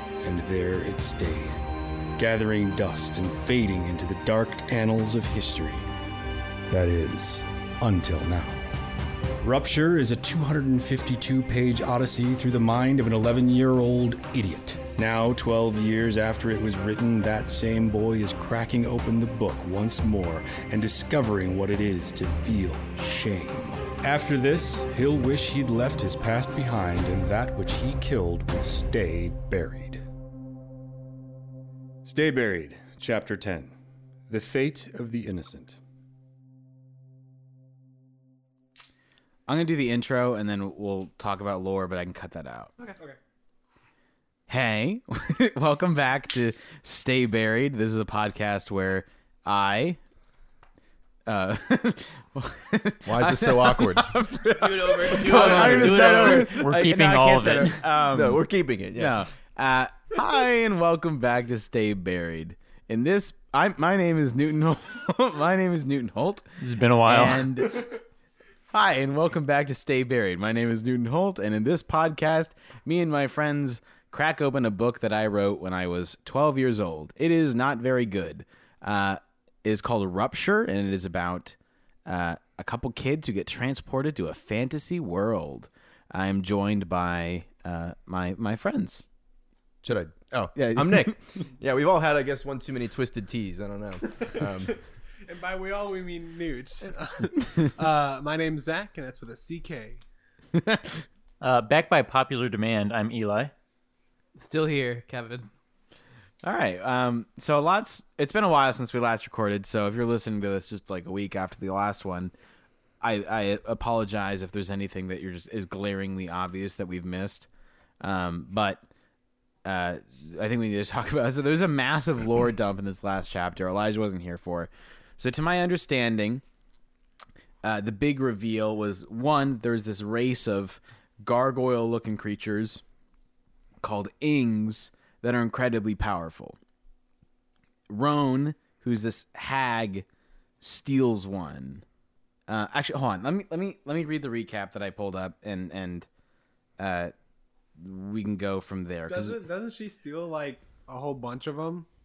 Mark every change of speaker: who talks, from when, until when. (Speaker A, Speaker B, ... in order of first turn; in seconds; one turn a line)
Speaker A: 0.2-1.6
Speaker A: 2.2-5.8
Speaker A: 6.7-8.6
Speaker A: 9.4-30.0
Speaker A: 32.0-33.7
Speaker A: 34.3-35.8
Speaker B: 39.5-42.7
Speaker B: 44.5-50.0
Speaker B: 51.3-58.4
Speaker C: 53.0-54.2
Speaker D: 54.5-56.5
Speaker C: 55.1-56.2
Speaker E: 56.4-57.8
Speaker C: 58.1-59.1
Speaker B: 58.9-66.5
Speaker E: 66.6-67.5
Speaker B: 67.0-67.9
Speaker B: 68.7-89.0
Speaker C: 89.8-94.7
Speaker B: 90.5-91.4
Speaker F: 95.2-100.0
Speaker B: 100.5-101.0
Speaker E: 101.4-103.5
Speaker D: 104.4-105.5
Speaker B: 106.4-112.3
Speaker B: 113.0-117.5
Speaker B: 118.0-118.8
Speaker B: 119.6-126.4
Speaker B: 127.6-132.8
Speaker B: 133.8-136.6
Speaker B: 137.9-140.1
Speaker B: 140.6-141.8
Speaker B: 142.5-146.1
Speaker B: 146.8-147.1
Speaker B: 147.8-149.4
Speaker F: 149.1-151.8